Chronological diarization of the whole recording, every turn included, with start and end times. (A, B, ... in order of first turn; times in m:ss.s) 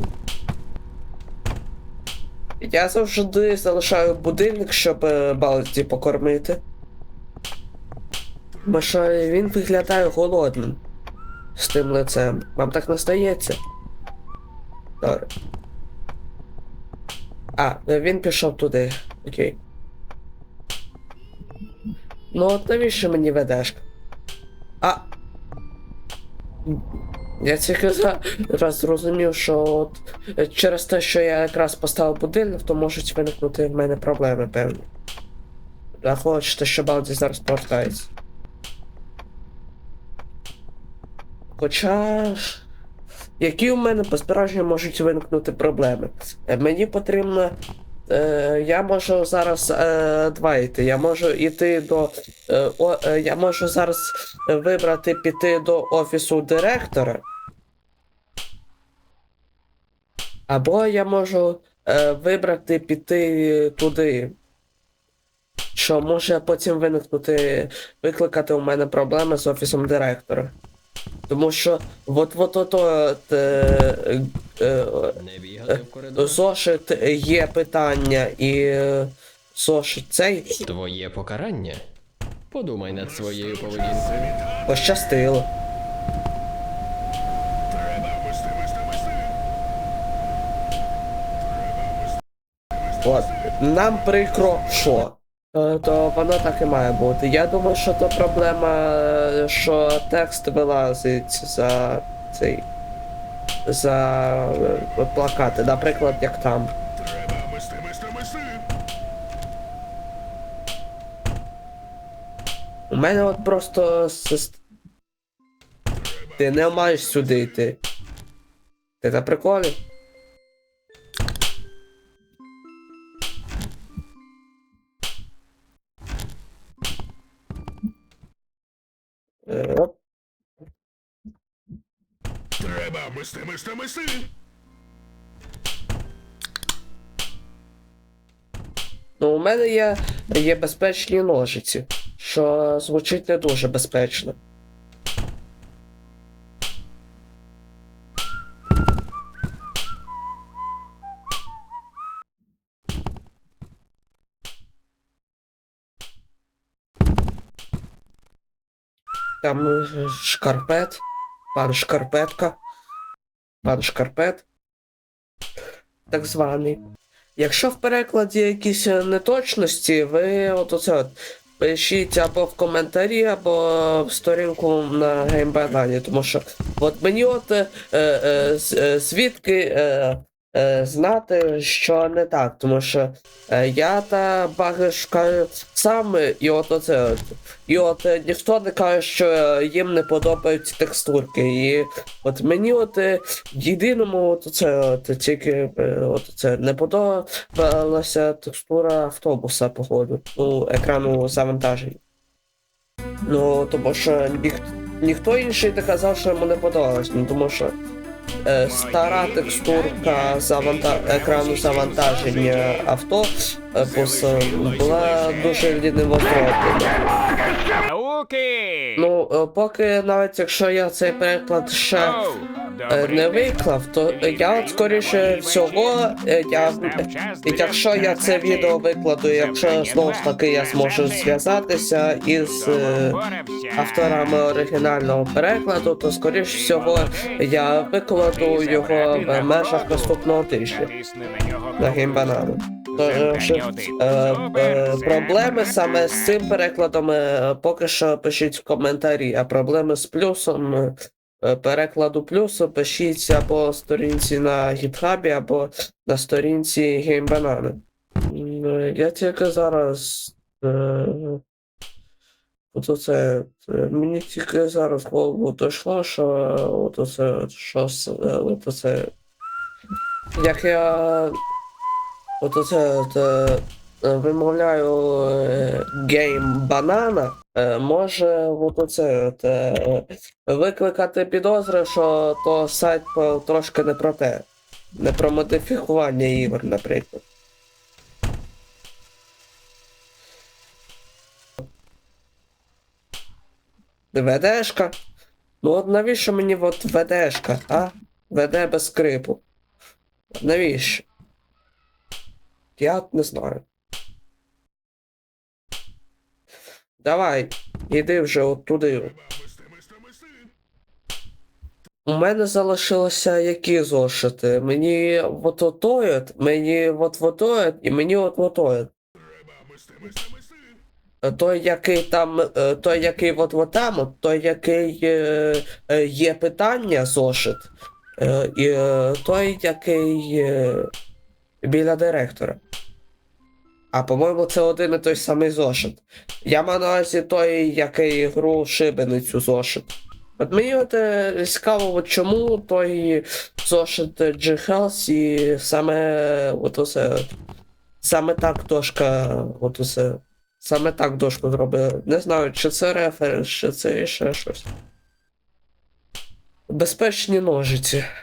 0:02.6-0:06.6 A
0:08.7-0:10.8 A
0:11.6-0:13.6 A
0:15.0-0:15.3 A
0:17.6-0:19.6 A
0:22.3-0:23.8 A
0:24.8-0:25.1 A
0:27.4-0:34.9 A
0:36.0-0:38.1 A
0:41.6-0:42.6 A
0:43.4-0:47.6 A
0:48.1-0:57.2 A
1:00.5-1:04.3 A
1:05.8-1:10.6 A
1:11.3-1:15.2 A
1:15.2-1:16.4 B
1:15.8-1:20.5 A
1:20.6-1:21.9 B
1:22.5-1:24.4 B
1:24.6-1:25.5 A
1:33.0-1:42.7 A
1:43.7-1:46.7 A
1:52.9-1:54.6 A
1:56.4-1:57.8 A
1:59.0-1:59.8 A
2:09.5-2:09.9 A
2:19.2-2:24.4 A
2:39.4-2:41.0 A
2:41.5-2:42.6 A
2:43.6-2:44.5 A
2:46.1-2:46.8 A
2:47.4-3:22.0 A
3:23.3-3:27.8 A
3:28.5-3:36.9 A
3:28.7-3:32.9 C
3:33.8-3:35.8 C
3:37.8-3:39.0 C
3:39.0-3:42.2 A
3:42.0-3:48.8 C
3:42.9-3:53.2 A
3:49.3-3:51.4 C
3:52.4-3:54.3 C
3:53.8-4:00.9 A
3:56.5-3:57.4 C
3:58.3-4:02.4 C
4:01.8-4:21.4 A
4:02.9-4:06.3 C
4:22.7-4:29.1 A
4:30.4-4:31.4 A
4:32.4-4:47.2 A
4:54.1-4:55.0 A
4:55.6-4:59.4 A
5:00.4-5:01.0 A
5:02.8-5:03.6 A
5:07.0-5:09.2 A
5:12.1-5:18.9 A
5:21.2-5:30.9 A
5:31.6-5:32.6 A
5:33.9-5:47.3 A
5:48.0-5:54.7 A
5:56.7-5:58.1 A